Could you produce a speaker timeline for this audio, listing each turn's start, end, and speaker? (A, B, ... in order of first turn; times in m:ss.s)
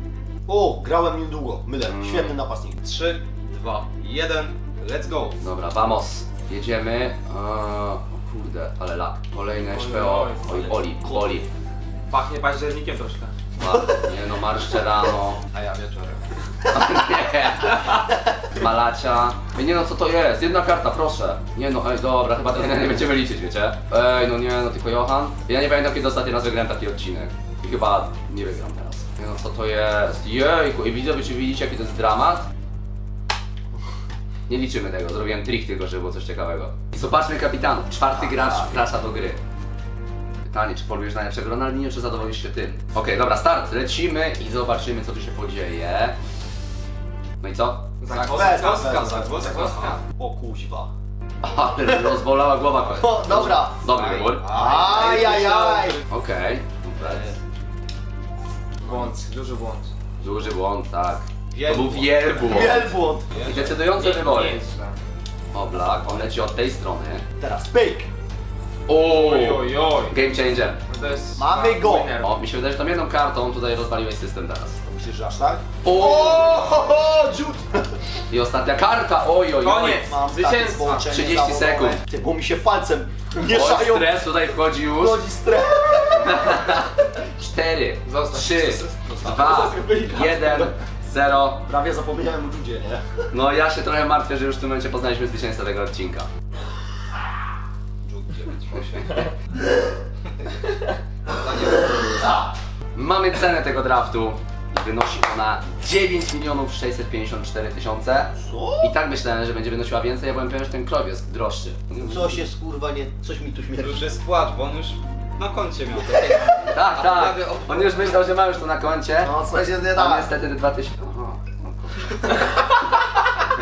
0:00.4-0:02.8 A
0:01.9-0:02.4 B
0:02.8-0:05.4 C
0:05.4-0:11.5 B
0:09.6-0:10.7 D
0:12.1-0:13.3 D
0:13.6-0:15.4 B
0:15.5-0:16.2 C
0:16.7-0:32.4 B
0:34.5-0:39.4 B
0:40.4-0:46.2 B
0:47.4-0:47.8 B
0:48.0-0:50.0 D
0:48.1-0:50.0 C
0:48.3-0:50.9 A
0:51.4-0:54.4 B
0:52.9-0:56.0 A
0:53.9-0:56.0 C
0:54.8-0:55.1 D
0:56.1-0:57.4 B
0:58.8-0:59.9 D
1:00.2-1:02.9 B
1:01.5-1:02.7 C
1:02.4-1:03.3 A
1:03.3-1:03.7 C
1:03.4-1:04.6 B
1:03.9-1:05.0 D
1:05.5-1:07.2 B
1:07.4-1:08.1 A
1:08.9-1:10.8 B
1:09.1-1:10.2 D
1:10.9-1:12.3 D
1:11.3-1:12.1 A
1:12.2-1:14.8 B
1:14.8-1:17.8 A
1:15.8-1:16.5 B
1:18.3-1:20.0 B
1:19.6-1:21.0 D
1:19.9-1:24.2 A
1:21.1-1:22.0 B
1:23.5-1:25.2 B
1:25.0-1:26.6 A
1:26.2-1:31.6 B
1:28.0-1:30.7 D
1:31.6-1:33.0 A
1:33.3-1:36.3 B
1:38.0-1:39.3 C
1:40.3-1:40.6 C
1:41.2-1:42.2 C
1:42.9-1:52.4 B
1:48.4-1:48.9 A
1:52.0-1:54.0 A
1:53.8-1:58.2 C
1:56.6-2:02.3 B
1:59.2-2:00.3 A